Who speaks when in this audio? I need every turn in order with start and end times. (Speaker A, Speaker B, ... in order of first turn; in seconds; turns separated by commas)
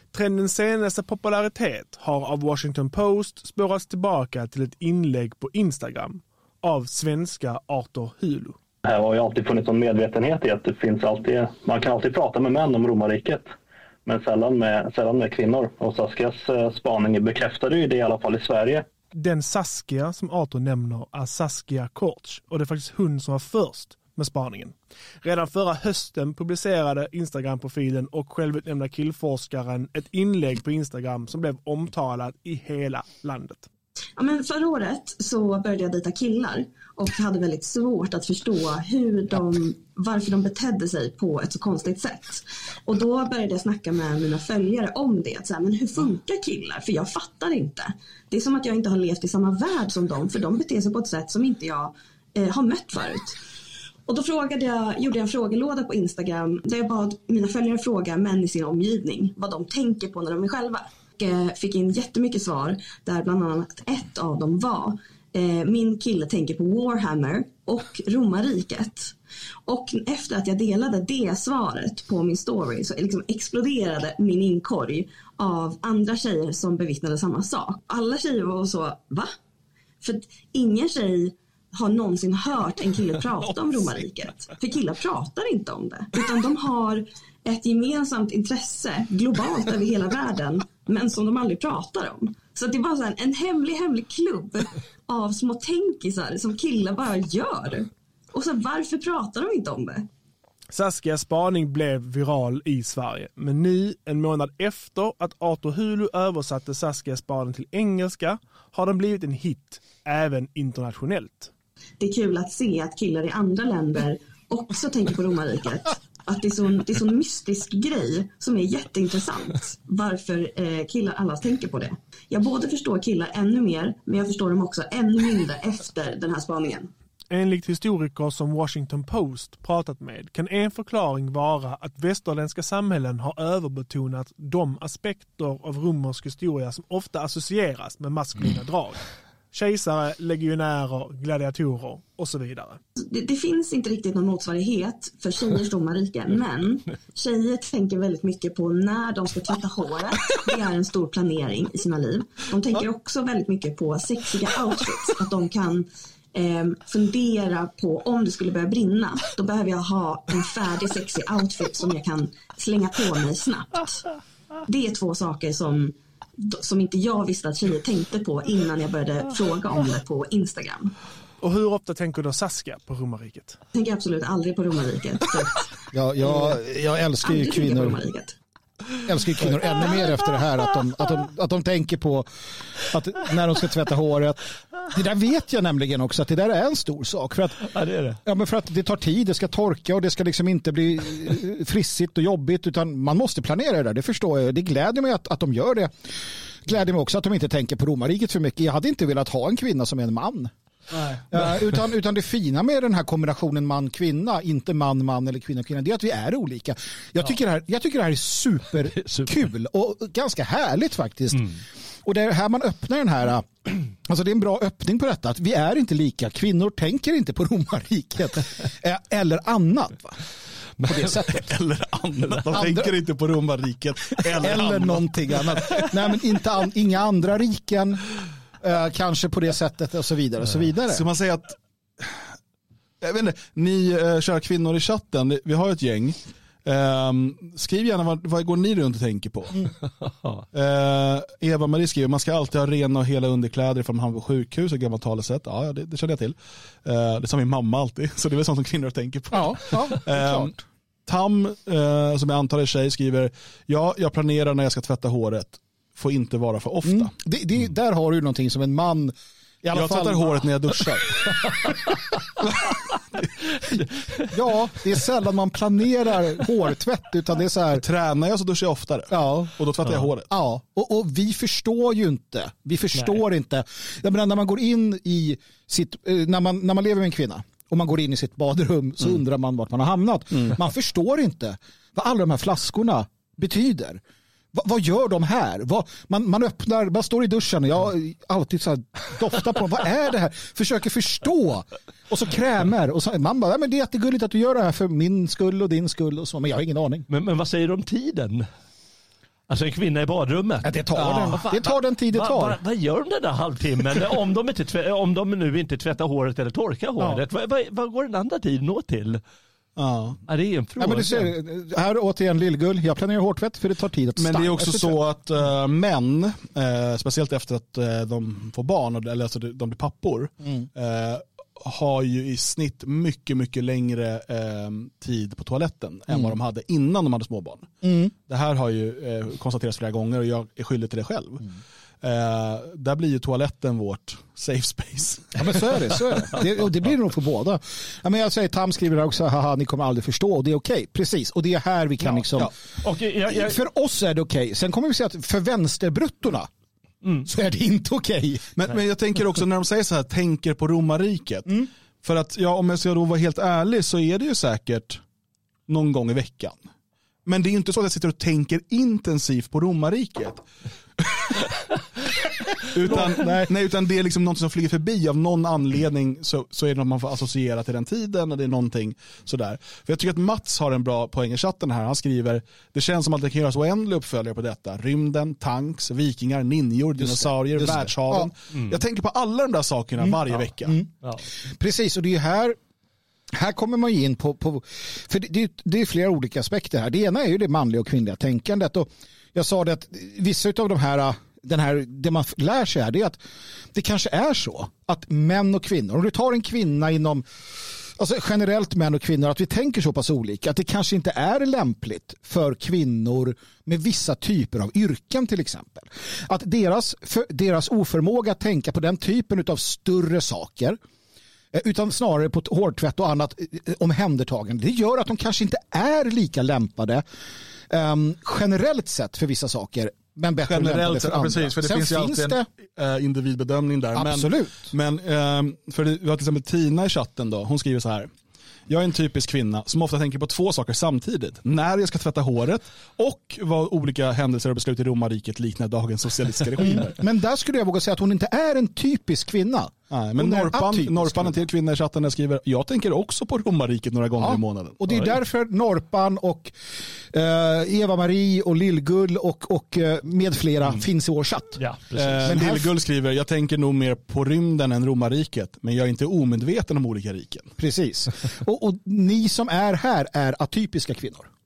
Speaker A: 0.1-8.6, Speaker B: 8.8-13.6, Speaker B: 14.1-18.9, Speaker A: 19.1-33.7, Speaker C: 34.2-53.4, Speaker C: 54.1-69.1, Speaker C: 69.7-79.3, Speaker C: 80.0-100.1, Speaker A: 100.7-111.5, Speaker C: 112.0-126.9, Speaker A: 127.3-142.8, Speaker C: 143.0-164.1, Speaker C: 164.7-170.9, Speaker A: 171.4-173.6, Speaker C: 173.7-175.7, Speaker D: 175.9-178.0, Speaker C: 177.2-178.4, Speaker D: 179.1-182.3, Speaker D: 182.8-187.7, Speaker E: 187.7-188.2, Speaker D: 188.2-200.5, Speaker D: 201.3-220.2, Speaker E: 208.9-209.4, Speaker D: 220.8-221.5, Speaker F: 221.3-225.9, Speaker D: 222.5-222.9, Speaker D: 224.4-228.1, Speaker D: 228.6-231.1, Speaker F: 230.9-232.2, Speaker F: 233.0-239.6, Speaker F: 240.5-250.5, Speaker D: 249.3-250.6, Speaker F: 251.1-257.1, Speaker D: 256.9-261.4, Speaker F: 259.7-261.2, Speaker D: 264.3-267.8, Speaker F: 267.8-270.3, Speaker D: 269.1-269.6, Speaker D: 270.3-284.0, Speaker D: 284.5-297.1, Speaker E: 297.1-298.5, Speaker E: 299.5-309.2, Speaker D: 300.6-302.6, Speaker F: 309.8-310.2, Speaker E: 310.3-311.3, Speaker D: 310.8-315.0, Speaker F: 314.2-327.7, Speaker D: 327.8-328.1, Speaker F: 328.3-331.4, Speaker F: 332.0-335.7, Speaker D: 335.4-342.5, Speaker F: 342.2-342.5, Speaker E: 342.8-343.6, Speaker D: 343.3-346.5, Speaker D: 347.3-348.5, Speaker F: 348.6-355.0, Speaker F: 355.7-356.6, Speaker F: 357.3-360.4, Speaker F: 361.0-361.4, Speaker F: 362.7-380.8, Speaker D: 362.8-363.5, Speaker D: 377.0-378.3, Speaker D: 380.0-380.9, Speaker D: 381.4-382.6, Speaker D: 383.3-393.2, Speaker D: 393.7-397.2, Speaker D: 398.0-410.8, Speaker D: 411.5-417.0, Speaker D: 417.7-422.5, Speaker F: 420.5-428.1, Speaker D: 423.9-424.7, Speaker F: 428.7-437.0, Speaker D: 436.7-441.4, Speaker F: 439.9-445.1, Speaker D: 444.2-451.6, Speaker E: 451.6-452.4, Speaker F: 451.9-457.5, Speaker D: 452.2-452.7, Speaker D: 457.6-461.3